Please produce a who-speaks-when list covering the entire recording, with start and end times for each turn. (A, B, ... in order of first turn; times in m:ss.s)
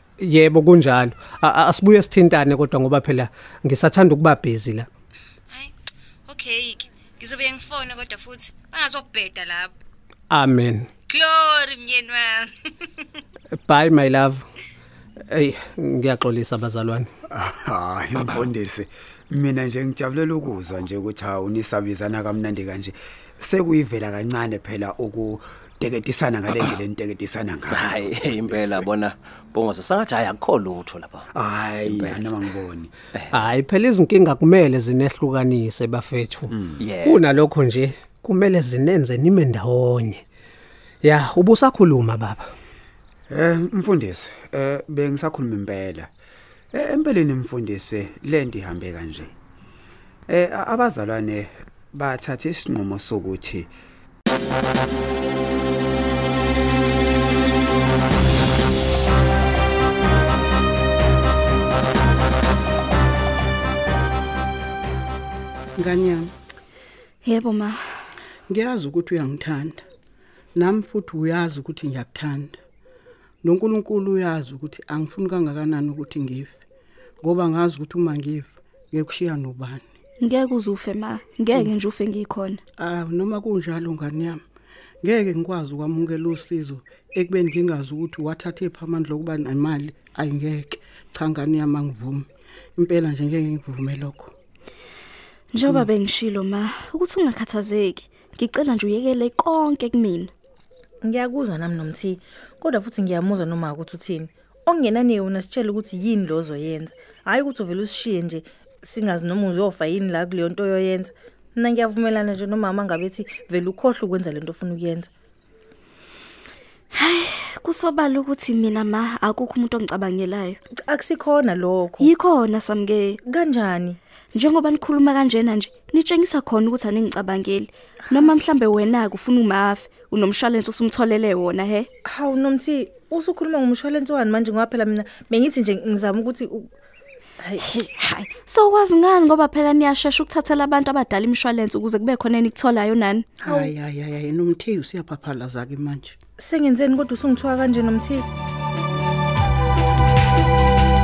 0:00.2-0:04.9 A
0:06.3-0:09.7 B
0:10.3-0:10.9 A
0:11.1-0:12.9 B
0:13.6-0:14.4 A
0:15.3-0:17.1 A
0:17.3-0:28.8 C
0:27.8-0:31.2 D
0:31.3-0:32.9 C
0:33.3-0:40.2 A
0:36.9-0:37.2 D
0:41.0-0:42.4 A
0:43.3-0:46.1 C
0:46.7-0:49.3 C
0:50.3-0:53.7 C
1:05.8-1:06.3 E
1:07.2-1:07.8 F
1:08.5-1:09.8 E
1:10.5-1:12.6 E
1:13.4-1:16.6 E
1:17.2-1:19.8 E
1:20.2-1:22.6 F
1:22.8-1:24.4 E
1:25.0-1:32.2 E
1:32.8-1:34.3 E
1:35.5-1:40.3 F
1:41.0-1:55.1 G
1:56.9-2:00.6 F
2:00.8-2:02.1 G
2:02.0-2:03.2 F
2:03.2-2:04.0 G
2:04.3-2:11.9 F
2:12.0-2:16.7 G
2:17.4-2:17.6 G
2:17.7-2:23.2 F
2:23.4-2:26.1 E
2:23.4-2:23.7 G
2:26.4-2:28.2 G